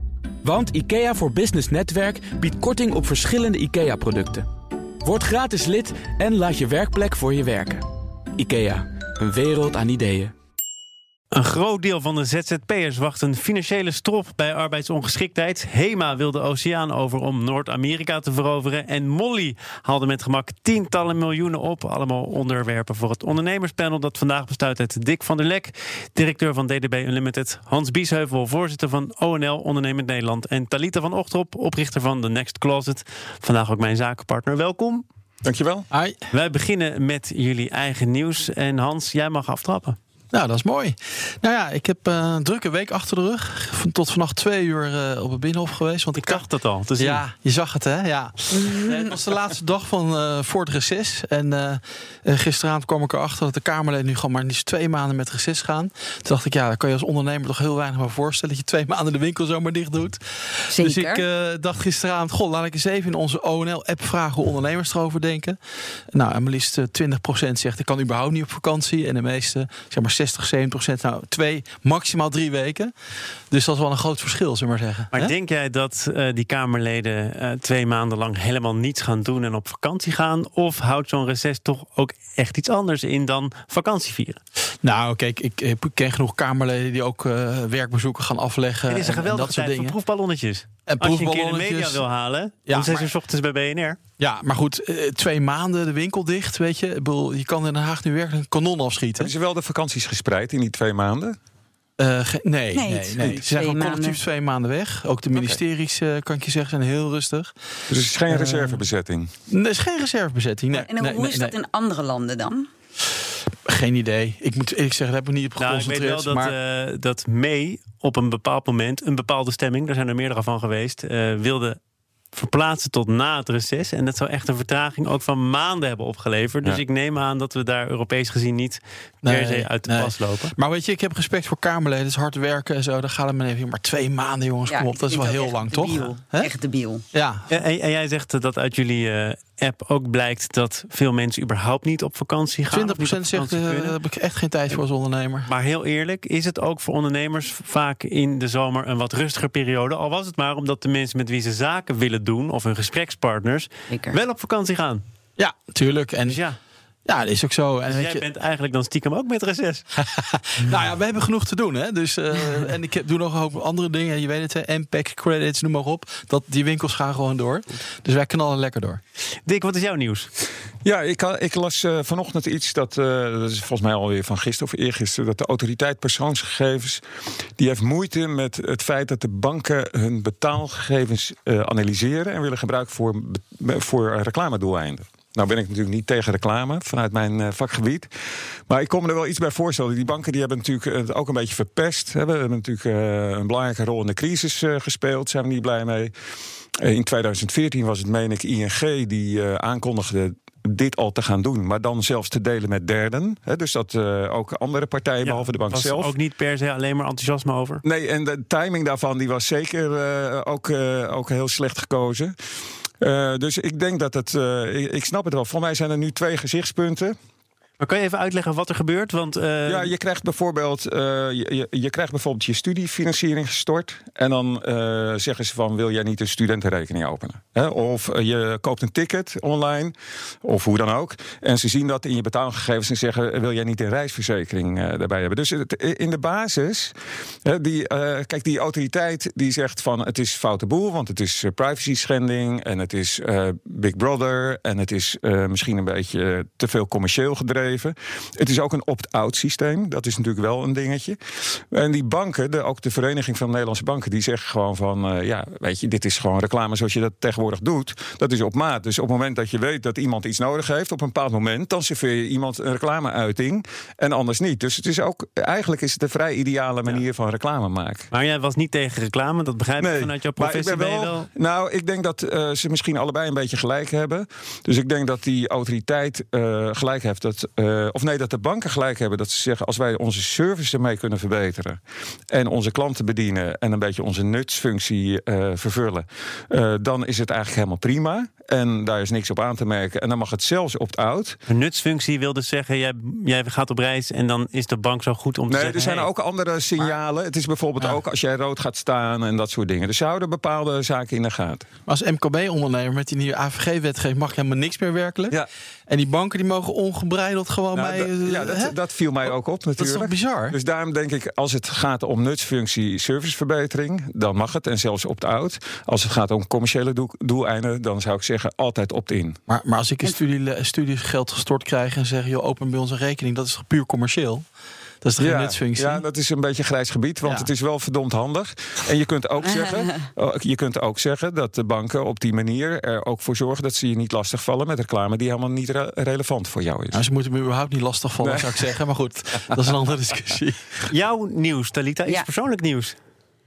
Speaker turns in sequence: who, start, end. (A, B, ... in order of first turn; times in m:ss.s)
0:00.4-0:04.5 A
0:05.0-0:07.8 A
0:08.4-0:10.3 A
0:11.3-0:35.0 B
0:35.4-0:35.9 C
0:35.9-0:36.2 D
0:36.3-0:40.0 B
0:40.3-0:46.5 D
0:46.2-0:47.2 B
0:47.0-1:05.6 D
0:48.5-0:49.1 E
1:00.7-1:01.2 E
1:06.1-1:12.9 D
1:13.5-1:15.3 D
1:15.1-1:24.4 B
1:24.8-1:30.0 D
1:28.9-1:34.0 B
1:30.9-1:32.0 D
1:32.7-1:33.1 D
1:34.2-1:39.3 D
1:39.2-1:41.4 C
1:42.0-1:47.5 D
1:42.7-1:44.2 E
1:47.9-1:49.3 C
1:48.3-1:48.8 D
1:49.5-1:51.5 D
1:50.7-1:52.7 E
1:53.7-1:56.6 D
1:55.6-2:01.8 B
2:02.3-2:10.5 B
2:09.2-2:16.5 D
2:14.7-2:17.0 E
2:17.1-2:17.5 D
2:17.5-2:24.0 B
2:22.7-2:25.5 D
2:25.5-2:35.0 B
2:33.9-2:34.2 E
2:35.4-2:36.4 D
2:36.3-2:36.6 B
2:37.1-2:38.2 D
2:37.9-2:39.8 B
2:40.0-2:49.0 D
2:49.5-2:50.3 B
2:50.8-2:57.0 C
2:57.6-3:08.1 C
3:08.7-3:16.1 C
3:16.8-3:26.1 C
3:25.2-3:27.8 B
3:27.8-3:32.3 C
3:33.0-3:37.2 C
3:37.8-3:39.9 B
3:39.7-3:56.9 C
3:57.4-4:28.1 C
4:28.1-4:31.3 B
4:29.8-4:51.4 C
4:51.5-4:56.1 B
4:55.5-5:01.7 C
5:01.9-5:10.6 D
5:07.8-5:19.4 C
5:19.5-5:24.4 D
5:25.0-5:26.0 D
5:25.2-5:37.0 C
5:27.2-5:27.5 D
5:36.9-5:40.9 D
5:38.2-5:38.6 C
5:40.9-5:43.0 B